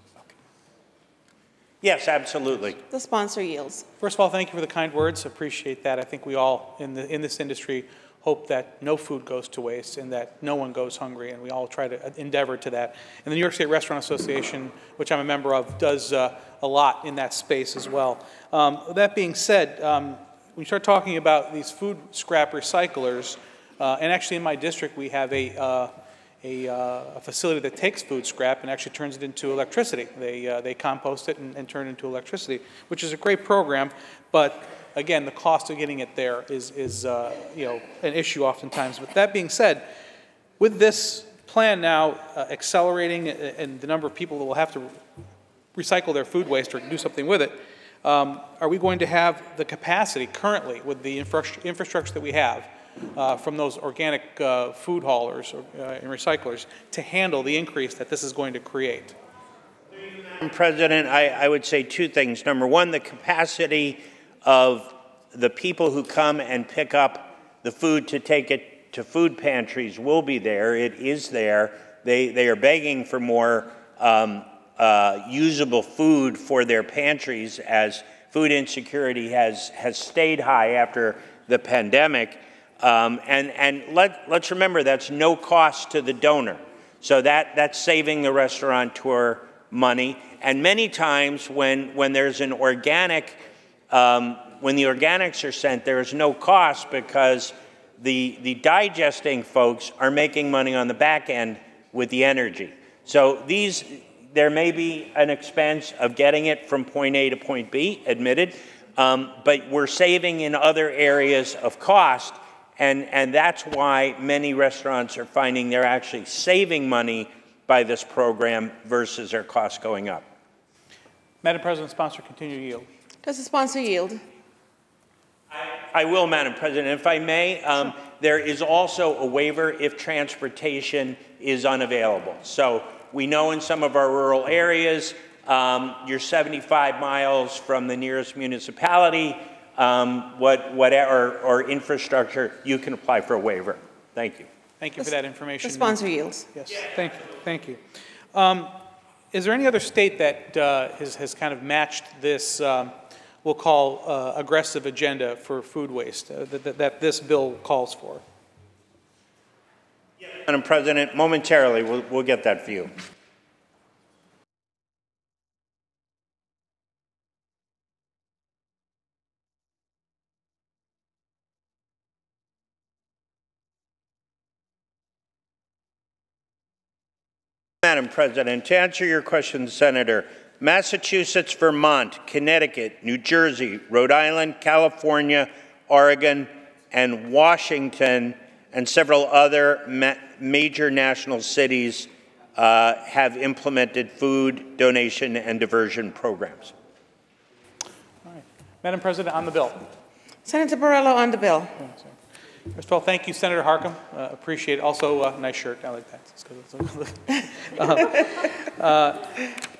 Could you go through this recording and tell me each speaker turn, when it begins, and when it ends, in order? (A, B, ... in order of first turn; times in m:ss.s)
0:01.8-0:02.8 A
0:02.9-0:03.8 B
0:04.0-0:39.9 C
0:40.6-0:45.0 C
0:45.8-0:59.2 C
1:00.3-2:00.2 A
2:01.4-2:02.9 C
2:03.2-2:04.2 B
2:05.5-2:24.5 A
2:24.8-2:26.0 C
2:25.6-2:26.5 B
2:26.5-2:27.8 C
2:28.3-2:28.8 C
2:29.3-2:38.2 C
2:40.2-2:42.9 A
2:57.8-3:16.7 A
3:18.2-3:19.9 C
3:20.4-3:21.7 B
3:21.8-3:22.2 C
3:22.7-3:29.3 C